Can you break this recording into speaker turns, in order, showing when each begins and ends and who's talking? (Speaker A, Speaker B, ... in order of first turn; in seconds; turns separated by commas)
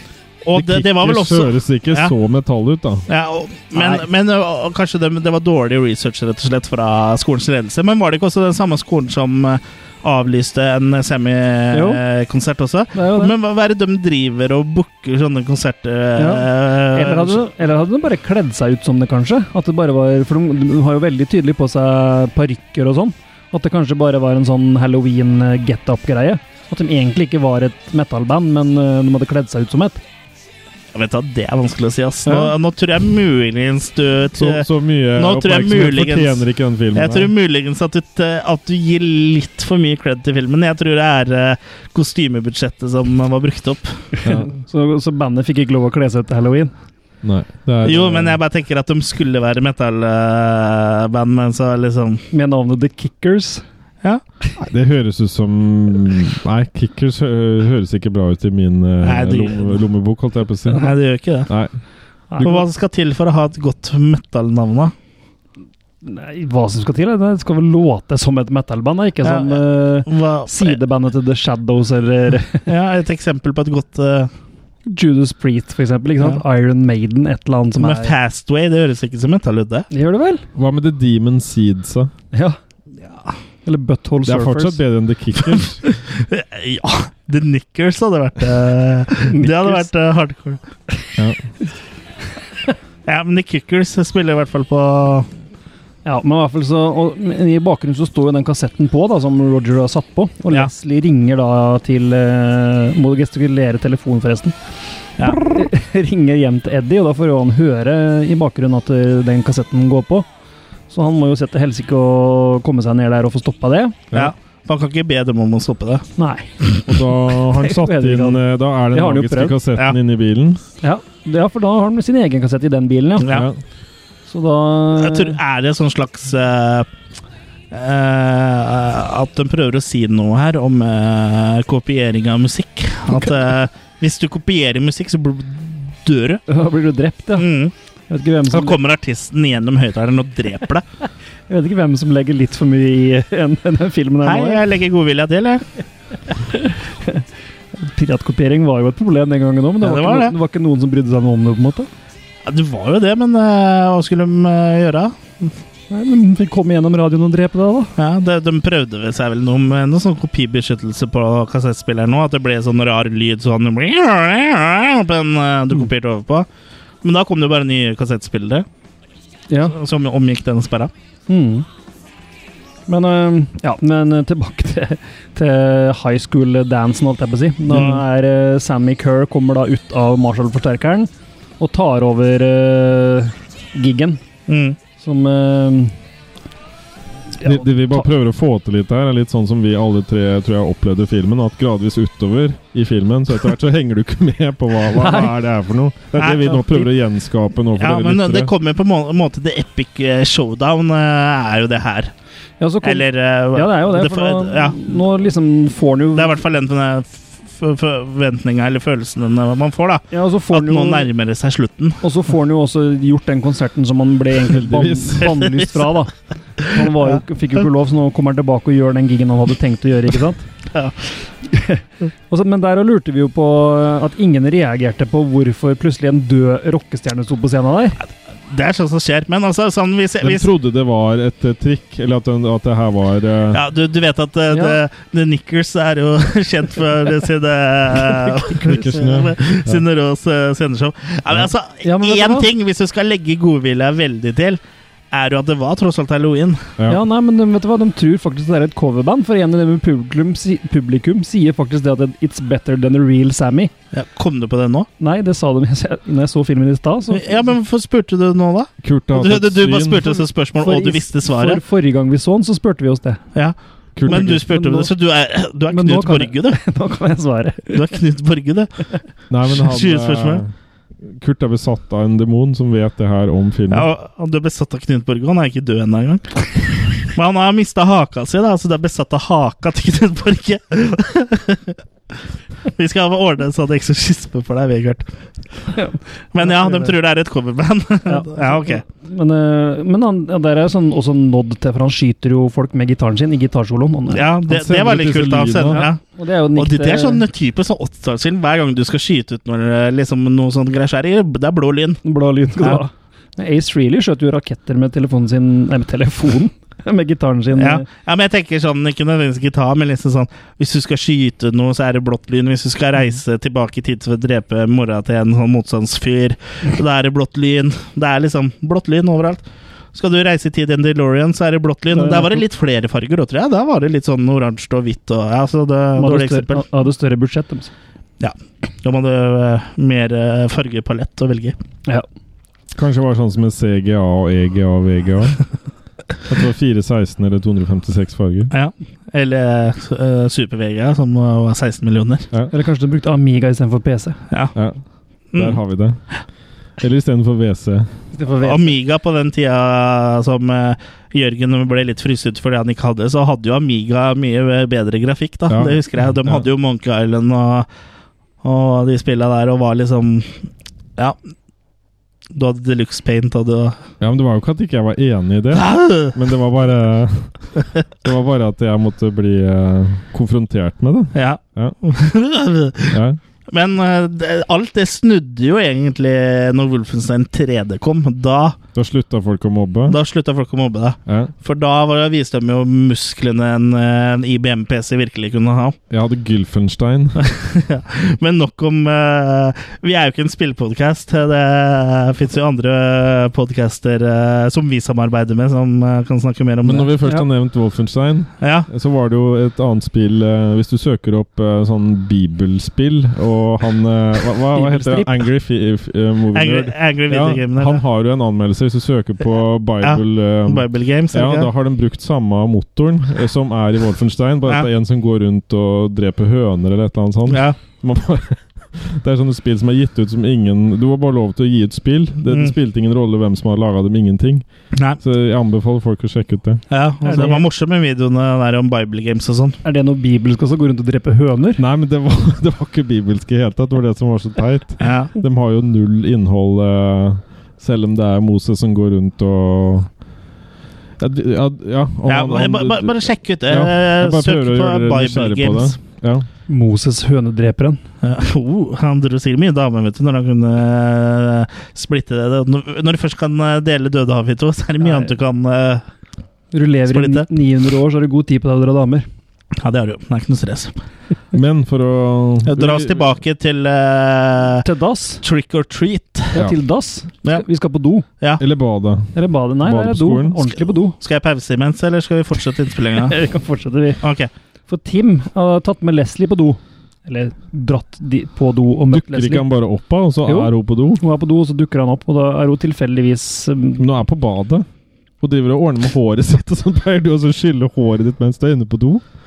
Speaker A: 0.4-2.1, Speaker B: 0.5-3.1, Speaker A: 3.1-17.4, Speaker C: 3.8-4.0, Speaker C: 11.7-12.0, Speaker C: 12.9-13.3, Speaker C: 16.2-30.0, Speaker A: 30.9-44.1, Speaker C: 32.3-32.5, Speaker B: 34.4-37.3, Speaker B: 44.2-44.5, Speaker C: 44.2-46.7, Speaker B: 47.2-48.4, Speaker A: 47.8-52.2, Speaker C: 52.3-53.6, Speaker B: 54.6-60.9, Speaker A: 59.0-59.8, Speaker A: 60.7-61.5, Speaker B: 61.5-61.8, Speaker C: 62.3-62.6, Speaker A: 62.4-64.9, Speaker C: 66.0-72.7, Speaker A: 69.2-70.8, Speaker A: 72.7-74.3, Speaker C: 74.9-78.2, Speaker A: 77.8-79.9, Speaker C: 79.9-80.4, Speaker B: 80.5-82.1, Speaker C: 82.3-82.6, Speaker C: 83.7-84.8, Speaker B: 84.2-85.8, Speaker A: 85.8-90.6, Speaker C: 89.3-89.9, Speaker B: 91.2-91.4, Speaker A: 93.1-95.3, Speaker C: 96.0-104.5, Speaker A: 105.2-105.5, Speaker C: 105.2-110.3, Speaker C: 110.9-114.0, Speaker A: 114.1-116.1, Speaker C: 116.2-116.5, Speaker B: 116.9-120.6, Speaker C: 117.6-119.6, Speaker C: 120.8-123.3, Speaker A: 123.2-123.5, Speaker B: 123.3-123.6, Speaker C: 124.3-125.4, Speaker A: 125.0-126.9, Speaker A: 127.7-136.4, Speaker C: 136.5-137.5, Speaker A: 137.4-137.7, Speaker C: 138.1-138.8, Speaker A: 138.5-140.8, Speaker C: 141.5-144.6, Speaker A: 144.2-145.7, Speaker C: 146.5-147.2, Speaker C: 147.8-151.9, Speaker A: 149.8-150.3, Speaker A: 152.5-155.5, Speaker C: 155.9-157.9, Speaker A: 158.0-166.5, Speaker A: 167.0-168.7, Speaker C: 169.5-169.8, Speaker A: 169.7-170.9, Speaker C: 171.3-171.7, Speaker C: 172.9-184.2, Speaker A: 177.7-178.0, Speaker A: 184.5-184.8, Speaker C: 185.0-185.9, Speaker C: 187.4-188.0, Speaker B: 187.4-198.5, Speaker C: 194.9-195.3, Speaker A: 196.2-196.8, Speaker A: 197.8-202.1, Speaker C: 202.6-206.4, Speaker A: 202.8-205.0, Speaker A: 206.1-212.0, Speaker C: 210.1-211.1, Speaker C: 212.0-216.1, Speaker B: 214.5-215.4, Speaker A: 215.2-216.0, Speaker C: 216.6-220.4, Speaker A: 216.7-217.2, Speaker C: 221.5-228.0, Speaker A: 228.5-230.5, Speaker B: 230.2-233.6, Speaker A: 233.5-244.6, Speaker C: 234.5-234.8, Speaker C: 238.3-238.8, Speaker B: 238.6-239.8, Speaker C: 241.8-242.5, Speaker A: 245.1-246.7, Speaker C: 246.9-253.7, Speaker A: 253.9-254.9, Speaker C: 255.0-257.4, Speaker A: 257.1-261.6, Speaker B: 258.8-260.2, Speaker C: 260.6-263.2, Speaker A: 263.4-266.6, Speaker B: 264.0-264.4, Speaker C: 264.1-264.9, Speaker C: 265.7-267.9, Speaker A: 267.7-268.7, Speaker B: 269.3-270.5, Speaker A: 269.5-270.4, Speaker B: 271.0-273.9, Speaker A: 273.7-281.8, Speaker A: 282.7-285.1, Speaker C: 285.7-286.9, Speaker A: 286.3-288.8, Speaker C: 288.1-294.3, Speaker A: 294.1-296.0, Speaker B: 294.5-295.9, Speaker C: 295.7-297.2, Speaker A: 296.6-302.0, Speaker C: 302.0-307.9, Speaker A: 307.6-319.4, Speaker A: 319.9-326.6, Speaker C: 321.9-322.4, Speaker C: 326.0-327.7, Speaker A: 328.2-331.6, Speaker B: 332.8-335.4, Speaker B: 336.3-338.5, Speaker A: 338.5-342.3, Speaker C: 342.5-344.2, Speaker B: 344.6-344.8, Speaker A: 345.3-345.6, Speaker B: 345.4-346.0, Speaker B: 346.8-347.9, Speaker C: 348.1-348.7, Speaker A: 348.4-357.7, Speaker B: 355.5-356.4, Speaker A: 358.4-360.4, Speaker A: 362.3-363.8, Speaker B: 364.0-367.5, Speaker A: 365.5-366.2, Speaker B: 368.0-371.8, Speaker A: 371.1-378.6, Speaker B: 372.9-373.2, Speaker B: 378.7-380.0, Speaker A: 379.9-385.8, Speaker B: 381.1-381.3, Speaker B: 385.9-387.2, Speaker A: 387.2-396.9, Speaker B: 396.6-424.4, Speaker A: 398.4-398.7, Speaker C: 404.5-405.2, Speaker A: 406.3-407.8, Speaker A: 409.8-411.5, Speaker A: 417.3-417.6, Speaker A: 424.7-425.0, Speaker B: 425.0-426.6, Speaker A: 426.7-429.6, Speaker C: 427.0-427.4, Speaker C: 429.6-431.6, Speaker B: 431.6-439.9, Speaker A: 434.8-435.1, Speaker B: 441.0-443.0, Speaker A: 442.1-445.8, Speaker B: 443.5-446.3, Speaker C: 446.5-447.8, Speaker A: 448.0-455.9, Speaker C: 454.8-455.1, Speaker C: 456.5-459.1, Speaker A: 456.9-457.3, Speaker A: 459.6-460.7, Speaker B: 461.3-463.1, Speaker A: 462.4-464.6, Speaker C: 464.6-465.2, Speaker A: 465.2-466.4, Speaker C: 466.3-468.1, Speaker B: 468.4-470.4, Speaker C: 469.1-470.9, Speaker A: 471.0-473.2, Speaker C: 473.0-474.0, Speaker A: 474.0-474.3, Speaker C: 474.7-479.5, Speaker B: 478.9-481.0, Speaker C: 480.2-483.8, Speaker B: 483.8-484.7, Speaker B: 485.2-489.0